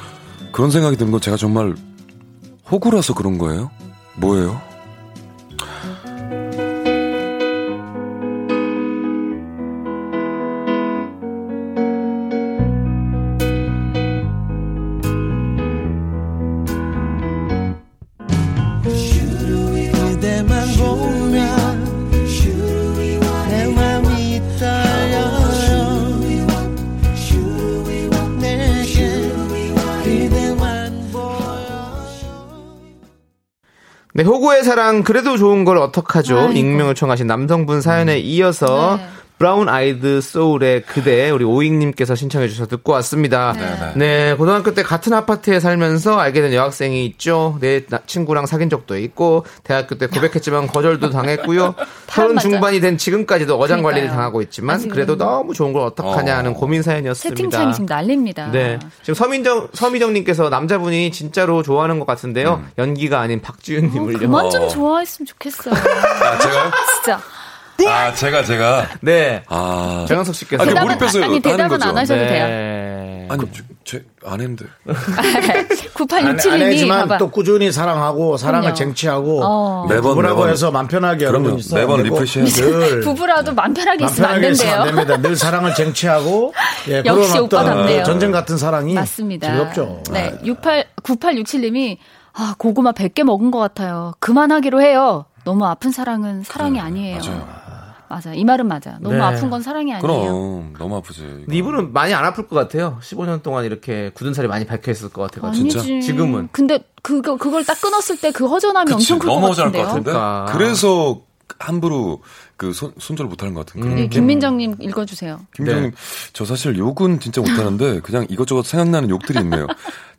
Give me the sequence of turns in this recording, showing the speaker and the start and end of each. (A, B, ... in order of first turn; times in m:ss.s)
0:00.5-0:01.8 A
0:02.6-0:04.7 A
0:19.1-0:26.7 B
0:27.3-0:32.4 B
0:34.1-0:57.8 C
0:36.2-0:36.9 D
0:38.6-0:39.2 D
0:43.5-0:44.0 D
0:43.5-0:44.0 A
0:52.1-0:52.7 D
0:53.6-0:55.4 D
0:56.0-0:56.7 A
0:57.2-0:58.9 D
0:58.4-1:04.5 C
1:03.9-1:07.2 D
1:04.3-1:04.8 A
1:06.0-1:06.9 A
1:07.8-1:08.9 A
1:09.0-1:09.5 C
1:09.5-1:12.0 A
1:10.0-1:11.1 C
1:10.1-1:12.6 D
1:12.0-1:13.6 C
1:13.3-1:14.8 A
1:15.2-1:17.3 D
1:16.1-1:23.2 E
1:18.4-1:20.1 D
1:19.8-1:20.6 A
1:21.2-1:22.7 A
1:22.4-1:25.8 D
1:24.0-1:30.4 E
1:26.6-1:28.2 D
1:27.5-1:28.4 A
1:28.9-1:37.6 D
1:30.1-1:30.3 A
1:36.6-1:37.6 A
1:38.1-1:40.4 D
1:39.0-1:39.6 C
1:40.0-1:41.9 A
1:41.5-1:46.5 C
1:45.4-1:50.0 D
1:45.6-1:45.9 A
1:48.8-1:54.3 A
1:49.7-1:50.8 C
1:53.8-1:54.5 C
1:53.9-1:55.5 D
1:55.6-1:59.9 A
1:55.6-1:55.9 C